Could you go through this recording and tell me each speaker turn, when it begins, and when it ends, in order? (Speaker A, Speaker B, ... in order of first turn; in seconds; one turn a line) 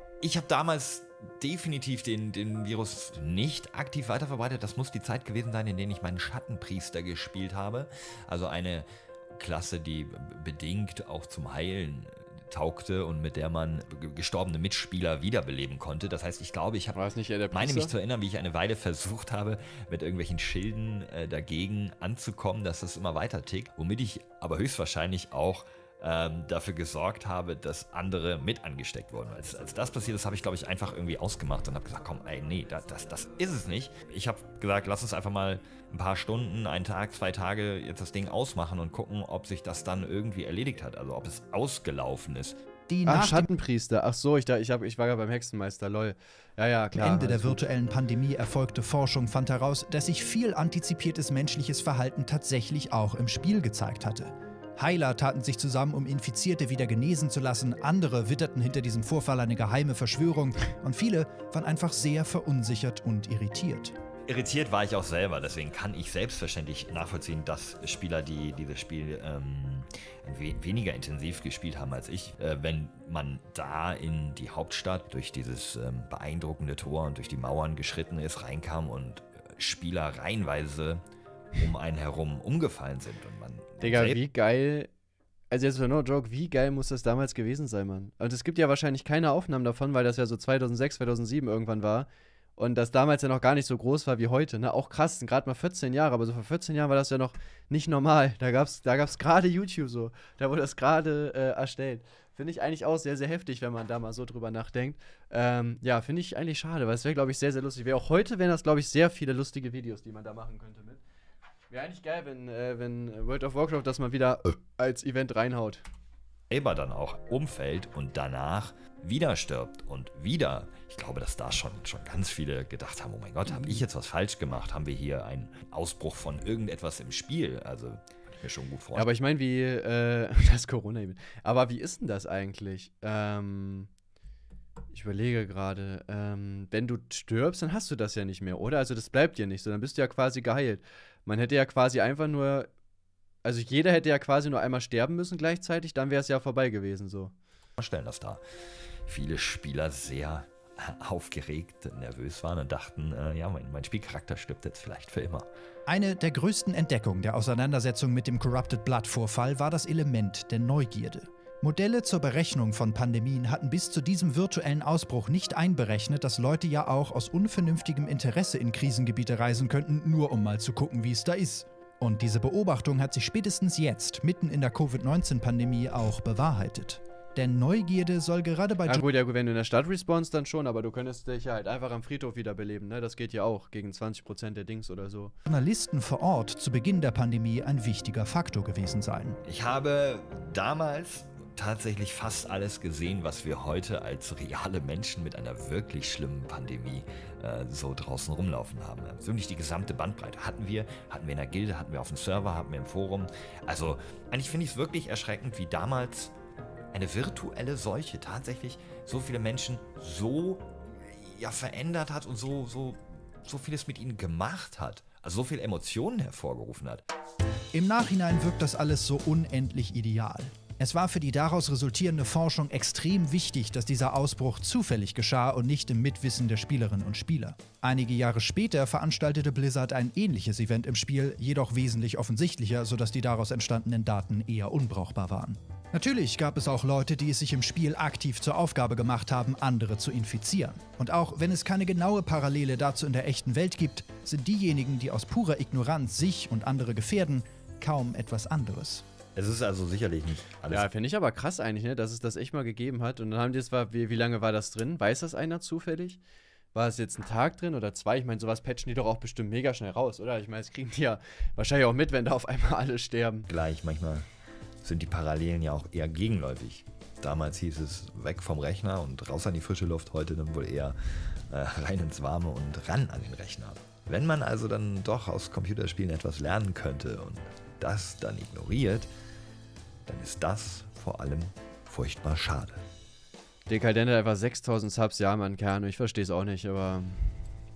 Speaker A: 0.2-42.6
Speaker B: 16.9-17.9
Speaker C: 42.9-43.5
Speaker B: 43.0-47.7
Speaker C: 46.9-63.9
Speaker A: 64.3-81.0
Speaker A: 81.5-84.2
Speaker B: 83.8-84.9
Speaker B: 85.5-111.0
Speaker B: 111.7-115.8
Speaker A: 116.5-129.1
Speaker B: 123.5-123.8
Speaker B: 128.9-133.9
Speaker B: 134.9-142.7
Speaker B: 143.4-147.3
Speaker A: 147.8-148.4
Speaker A: 149.1-155.4
Speaker C: 155.9-179.0
Speaker B: 178.9-185.3
Speaker C: 185.4-189.4
Speaker A: 189.4-206.3
Speaker A: 206.9-217.0
Speaker C: 217.7-249.0
Speaker A: 249.3-250.9
Speaker B: 250.7-256.2
Speaker B: 256.7-263.5
Speaker A: 263.5-264.2
Speaker A: 264.8-270.9
Speaker A: 271.5-279.1
Speaker A: 280.1-282.8
Speaker B: 283.7-287.3